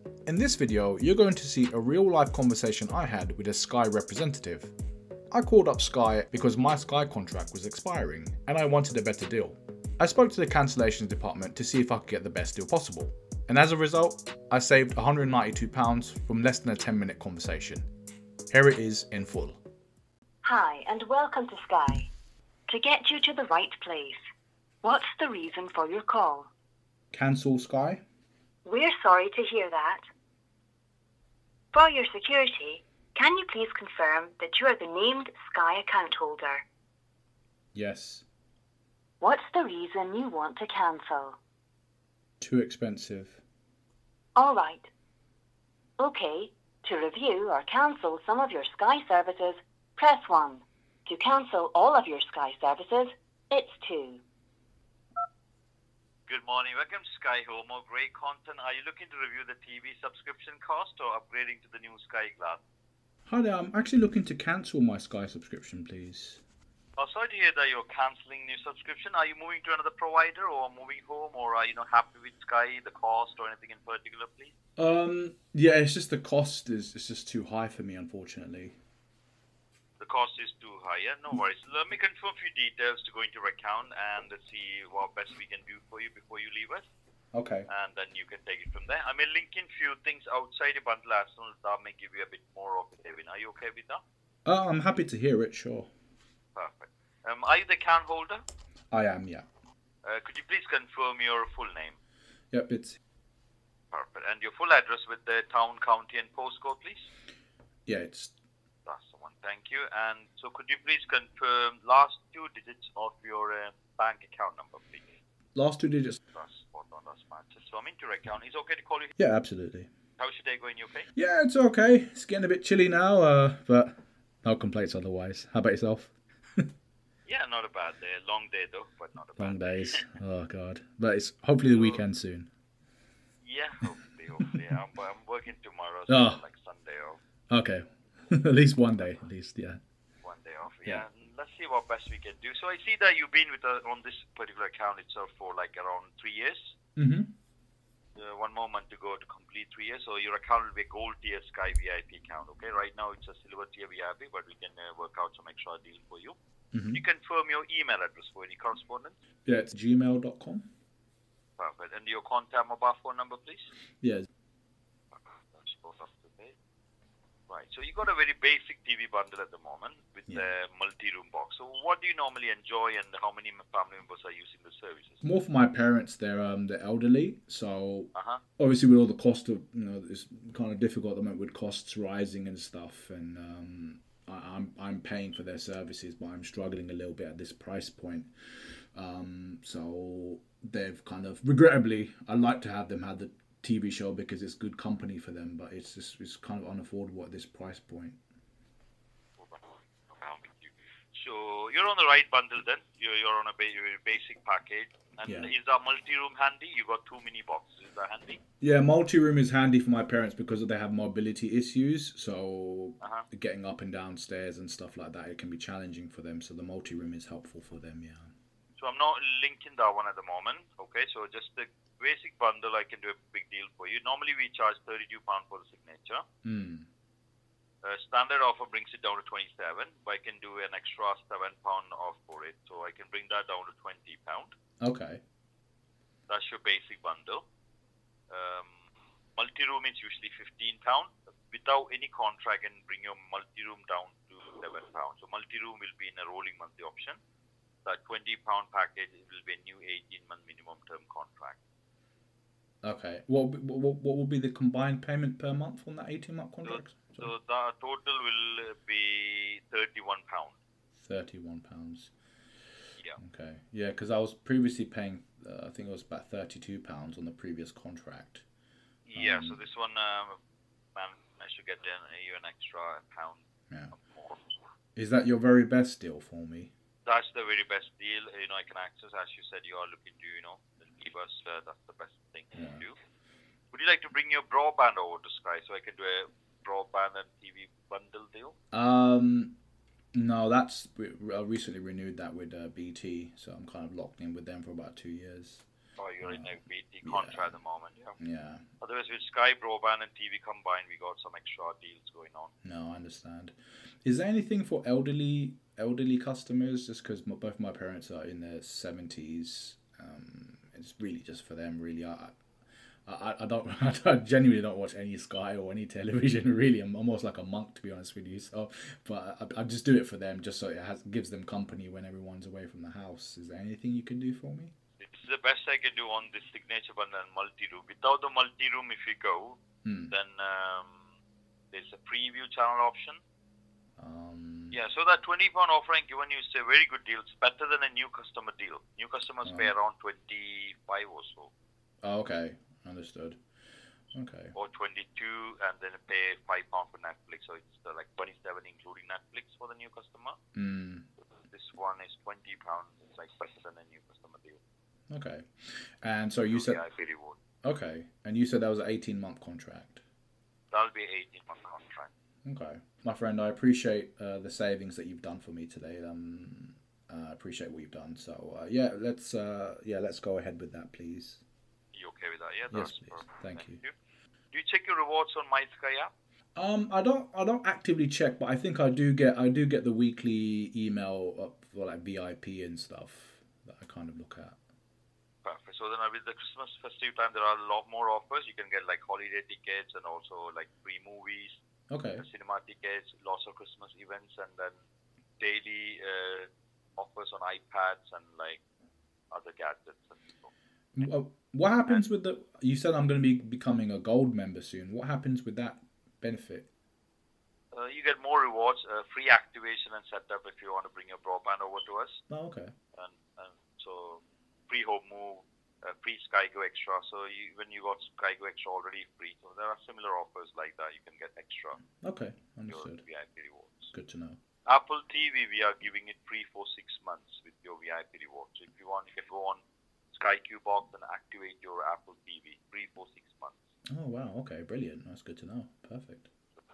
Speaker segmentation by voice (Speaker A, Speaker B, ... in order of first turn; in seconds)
Speaker A: 0.3-4.7, 5.3-17.9, 18.5-19.6, 27.1-28.0, 37.8-38.2, 42.4-43.4, 63.3-66.4, 74.8-78.8, 87.3-87.7, 94.5-95.9, 98.9-99.5, 102.5-103.0, 107.9-108.3, 115.5-116.2, 119.2-119.9, 121.2-126.7, 129.4-132.5, 136.1-136.4, 137.5-139.8, 147.0-147.3, 156.7-157.0, 159.5-160.7, 164.0-164.3, 175.2-198.2, 205.2-205.5, 208.6-218.3, 226.4-226.9, 234.8-235.2, 252.8-257.3, 261.0-262.1, 263.2-268.4, 269.2-269.6, 275.0-276.7, 282.6-282.8, 288.7-289.6, 290.1-295.6, 296.2-297.6, 298.2-298.6, 302.6-312.4, 313.1-324.7, 329.8-330.1, 334.0-334.8, 339.4-339.7, 342.0-343.4, 344.1-344.5, 350.6-351.1, 355.1-356.8, 357.6-360.0, 362.4-371.4, 372.7-373.8, 376.6-384.6, 391.9-392.3, 400.9-406.7, 412.3-412.7, 422.0-423.0, 423.9-424.4, 433.9-436.3
Speaker B: 20.4-22.1, 22.7-24.2, 24.8-26.5, 28.6-30.0, 31.7-36.6, 39.2-41.4, 44.4-44.9, 46.0-54.2
Speaker C: 56.3-62.6, 67.0-74.5, 80.0-86.9, 87.7-94.0, 96.6-98.4, 100.0-102.0, 103.9-107.1, 108.9-115.1, 116.3-119.2, 120.2-121.1, 127.3-130.0, 131.7-132.0, 133.4-137.2, 140.2-146.7, 148.2-156.3, 156.9-159.2, 161.6-163.7, 165.5-166.5, 167.5-175.2, 178.1-178.4, 199.4-208.4, 213.0-213.3, 218.8-226.2, 227.8-234.5, 236.3-237.4, 238.3-238.8, 239.4-247.2, 247.8-251.6, 256.6-260.6, 269.1-270.4, 270.9-273.4, 273.9-274.4, 277.1-282.9, 283.7-288.6, 296.0-298.2, 298.8-302.5, 325.0-329.6, 330.1-331.0, 331.7-333.2, 334.7-341.5, 344.5-350.4, 351.5-354.6, 356.5-357.4, 360.7-362.1, 371.9-373.9, 374.5-376.1, 385.4-391.5, 392.2-394.8, 395.4-398.6, 399.3-400.5, 407.7-412.2, 412.9-421.8, 422.7-423.9, 424.7-433.6